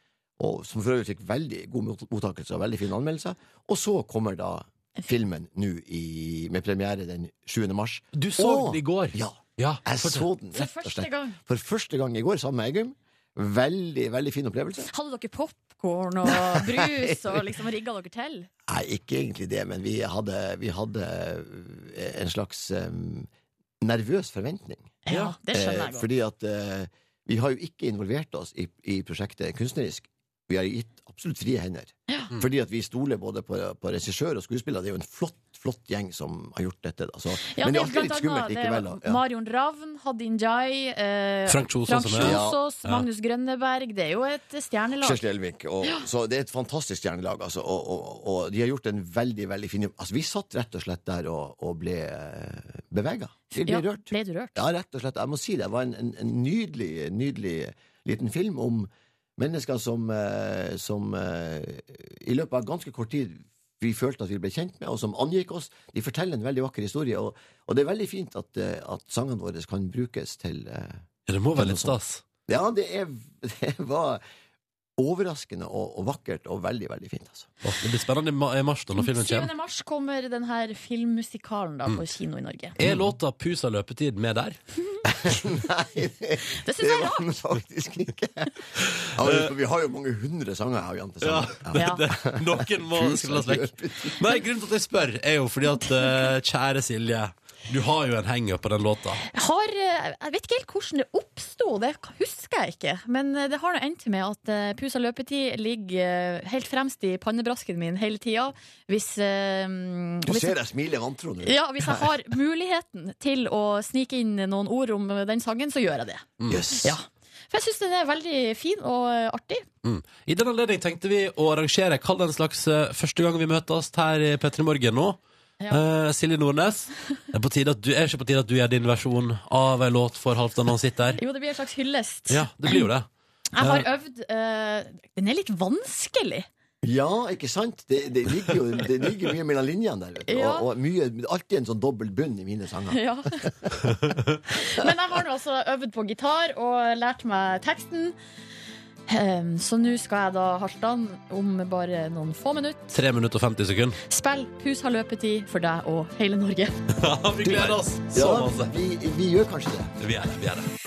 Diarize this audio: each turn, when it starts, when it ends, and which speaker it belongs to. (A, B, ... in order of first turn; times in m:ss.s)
0:00.4-0:14.9 A
0:08.1-0:10.3 B
0:10.5-0:11.4 C
0:14.9-0:18.5 C
0:16.2-0:17.3 A
0:18.7-0:23.3 A
0:23.8-0:39.2 A
0:25.0-0:26.1 C
0:37.5-0:45.2 C
0:41.5-0:43.0 B
0:42.2-0:42.6 A
0:45.0-1:11.0 A
0:53.6-0:54.6 C
1:11.3-1:12.2 B
1:11.5-1:11.9 A
1:12.5-1:14.2 A
1:15.0-1:17.5 A
1:17.6-1:19.5 B
1:19.0-1:22.8 C
1:22.8-1:24.6 B
1:25.1-1:28.5 A
1:26.6-1:27.4 C
1:29.1-1:34.2 A
1:29.2-1:29.5 B
1:31.2-1:39.2 B
1:31.7-1:32.0 C
1:39.3-1:50.6 C
1:50.2-1:52.0 A
1:51.4-1:56.2 C
1:56.5-1:57.0 A
1:56.8-1:59.6 C
1:59.8-2:05.2 B
2:05.7-2:11.2 B
2:11.2-2:12.9 C
2:12.3-2:13.1 B
2:13.5-2:16.5 C
2:13.6-2:13.8 B
2:16.8-2:24.0 A
2:20.3-2:20.6 C
2:22.9-2:23.3 C
2:24.5-2:28.1 C
2:29.1-2:33.0 C
2:32.9-2:34.0 B
2:34.1-2:36.8 C
2:36.9-2:38.7 B
2:37.4-2:39.9 A
2:40.0-2:40.7 B